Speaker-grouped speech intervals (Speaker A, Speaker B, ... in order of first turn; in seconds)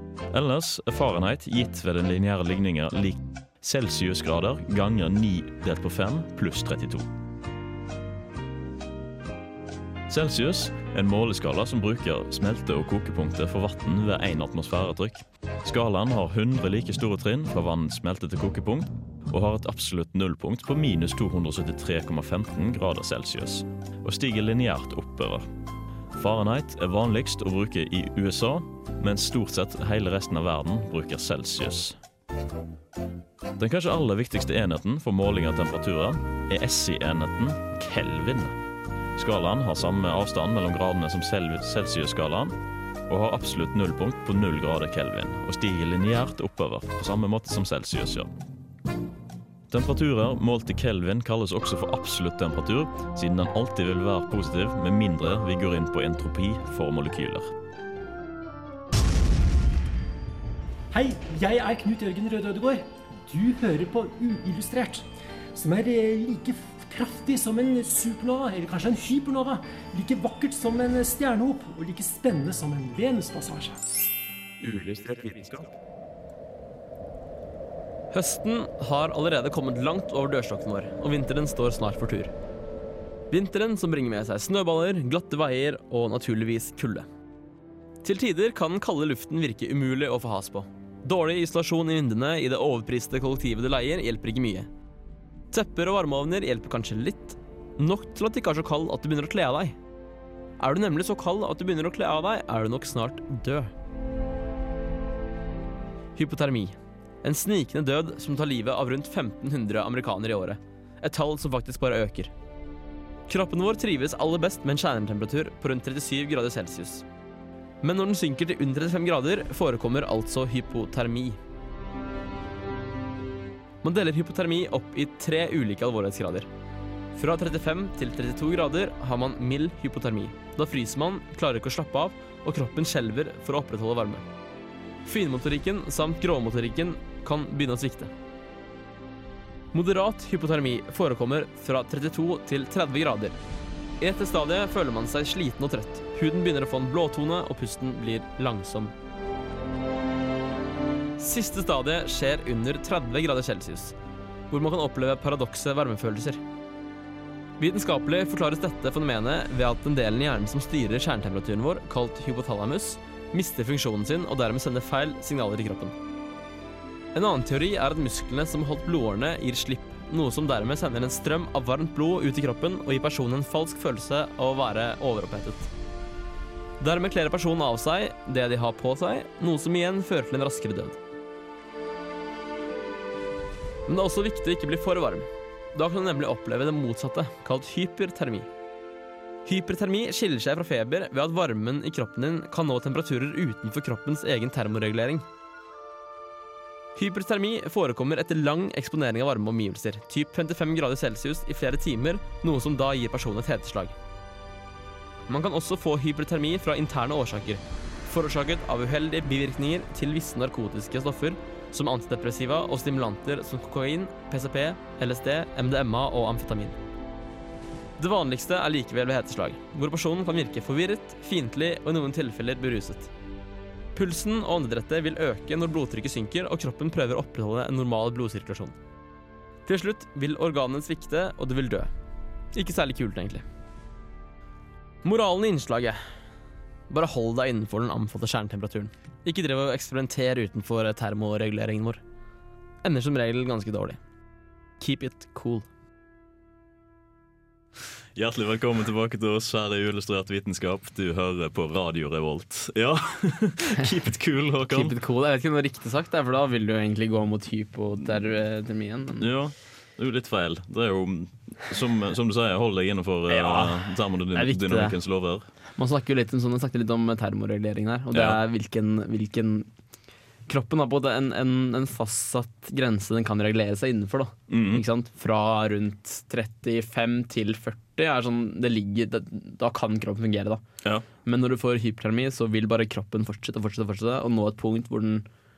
Speaker A: 0.3-7.1, 10.1-25.5, 26.1-32.0, 33.6-38.6, 39.2-42.5, 43.1-48.3, 49.7-57.5, 74.6-75.5, 248.2-254.9, 259.2-265.5, 268.1-268.4, 274.5-274.8
Speaker B: 60.9-73.8
Speaker C: 78.1-82.3, 83.3-87.1, 88.0-94.7, 95.5-99.8, 100.6-103.7, 106.2-112.3, 113.3-117.0, 117.8-121.4, 123.8-126.5, 127.2-134.2, 135.1-138.1, 139.7-143.4, 144.0-148.9, 151.2-153.9, 154.5-156.4, 157.6-165.9, 167.1-175.7, 176.8-181.0, 183.9-188.5, 189.5-195.2, 197.0-203.9, 205.3-216.8, 218.0-223.1, 223.9-228.8, 229.7-231.9, 232.5-233.4, 235.0-236.0, 236.9-242.0, 242.8-244.0, 244.8-245.7, 254.7-259.3, 263.3-265.0, 265.8-269.7, 270.5-280.6, 281.2-285.3